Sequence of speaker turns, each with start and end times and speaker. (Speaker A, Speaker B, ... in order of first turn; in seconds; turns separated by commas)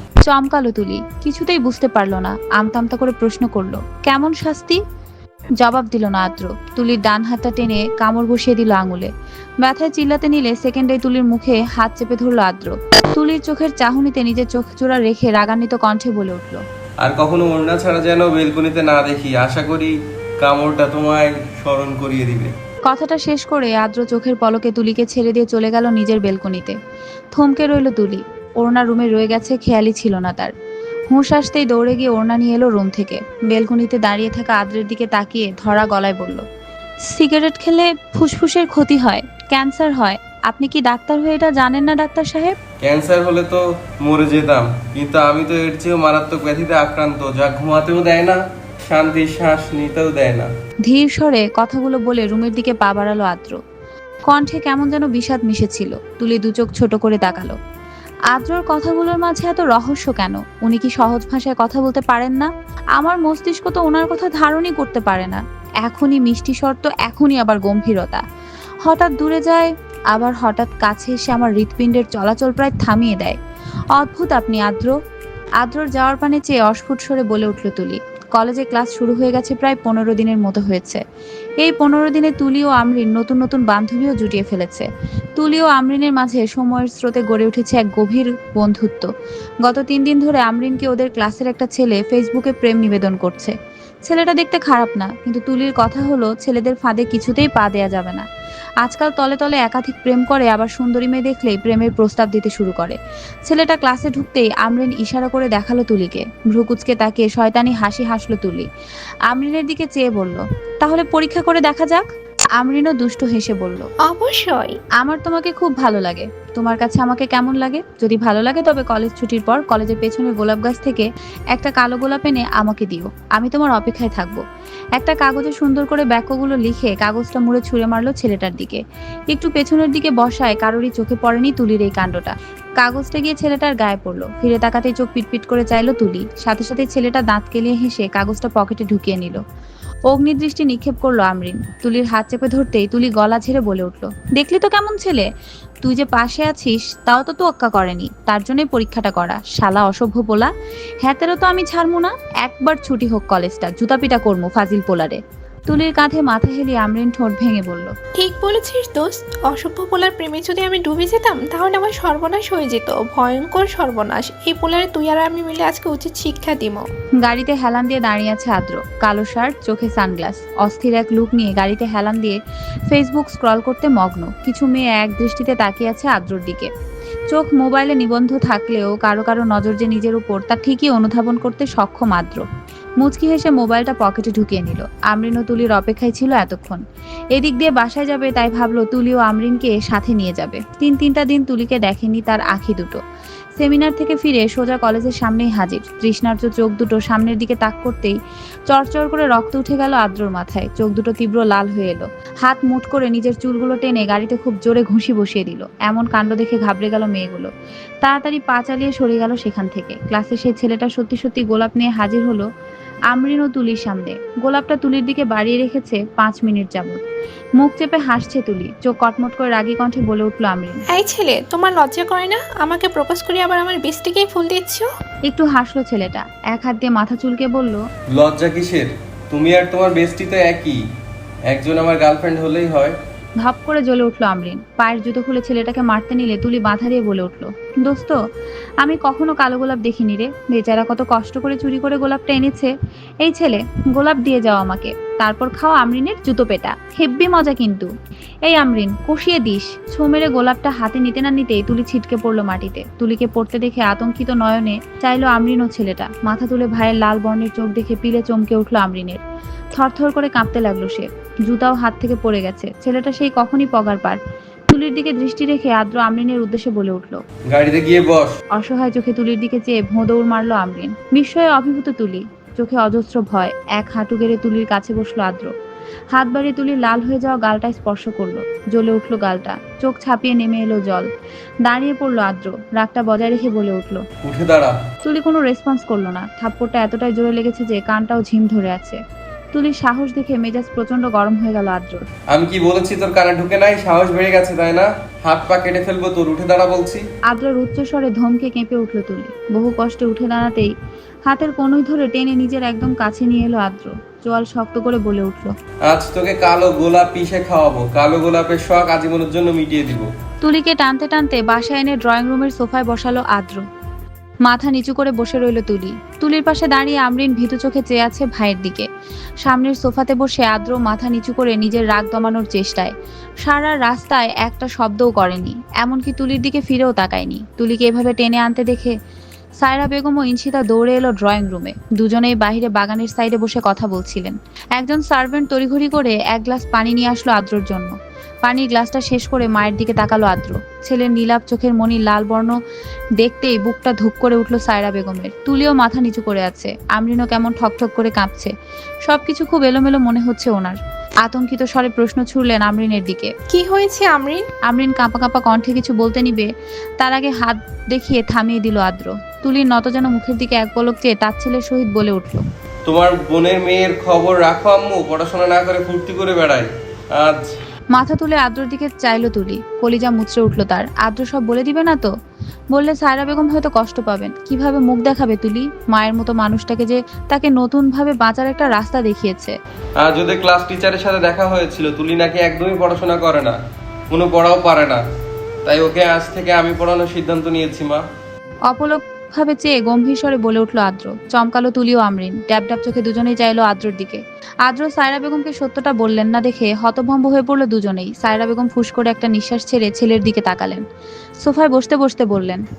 Speaker A: 0.2-4.8, Speaker A: 5.6-9.1, Speaker A: 9.6-16.6, Speaker B: 17.0-22.5, Speaker A: 22.9-26.8, Speaker A: 27.3-30.5, Speaker A: 31.1-36.5, Speaker A: 37.1-42.6, Speaker B: 42.8-50.5, Speaker A: 50.9-53.6, Speaker A: 54.3-57.6, Speaker A: 58.3-68.2, Speaker A: 68.8-73.4, Speaker A: 73.9-74.9, Speaker A: 75.6-81.0, Speaker A: 81.6-89.1, Speaker A: 89.6-93.5, Speaker A: 94.1-98.3, Speaker A: 98.8-108.7, Speaker A: 109.3-112.1, Speaker A: 112.6-113.9, Speaker C: 114.1-114.8, Speaker A: 115.0-124.4, Speaker A: 125.0-139.4, Speaker A: 140.1-145.3, Speaker A: 145.8-150.5, Speaker A: 151.0-157.9, Speaker C: 158.2-166.9, Speaker A: 167.2-172.4, Speaker A: 172.9-176.7, Speaker A: 177.3-182.4, Speaker A: 183.0-186.8, Speaker A: 187.3-193.0, Speaker A: 193.6-198.2, Speaker A: 198.7-207.5, Speaker A: 208.0-212.5, Speaker A: 213.1-217.0, Speaker A: 217.6-220.8, Speaker C: 220.9-224.9, Speaker A: 225.3-227.8, Speaker B: 228.1-230.8, Speaker B: 231.5-233.0, Speaker A: 233.4-238.2, Speaker A: 238.8-247.9, Speaker A: 248.4-259.2, Speaker A: 259.7-267.2, Speaker B: 267.5-268.4, Speaker A: 268.5-275.5, Speaker A: 276.1-281.1, Speaker A: 281.6-284.0, Speaker B: 284.2-284.8, Speaker A: 285.0-289.0, Speaker A: 289.5-292.1, Speaker B: 292.3-297.1, Speaker A: 297.3-300.7, Speaker A: 301.3-305.5, Speaker B: 305.9-310.1, Speaker A: 310.4-313.6, Speaker A: 314.5-318.9, Speaker A: 319.4-328.9, Speaker A: 329.6-337.9, Speaker A: 338.4-342.6, Speaker A: 343.2-348.5, Speaker A: 349.1-353.3, Speaker C: 353.5-354.5, Speaker A: 354.7-362.4, Speaker B: 362.9-367.6, Speaker A: 367.9-372.1, Speaker A: 372.7-379.5, Speaker B: 380.0-383.6, Speaker B: 384.1-385.0, Speaker B: 385.6-388.1, Speaker A: 388.7-400.8, Speaker A: 401.4-402.6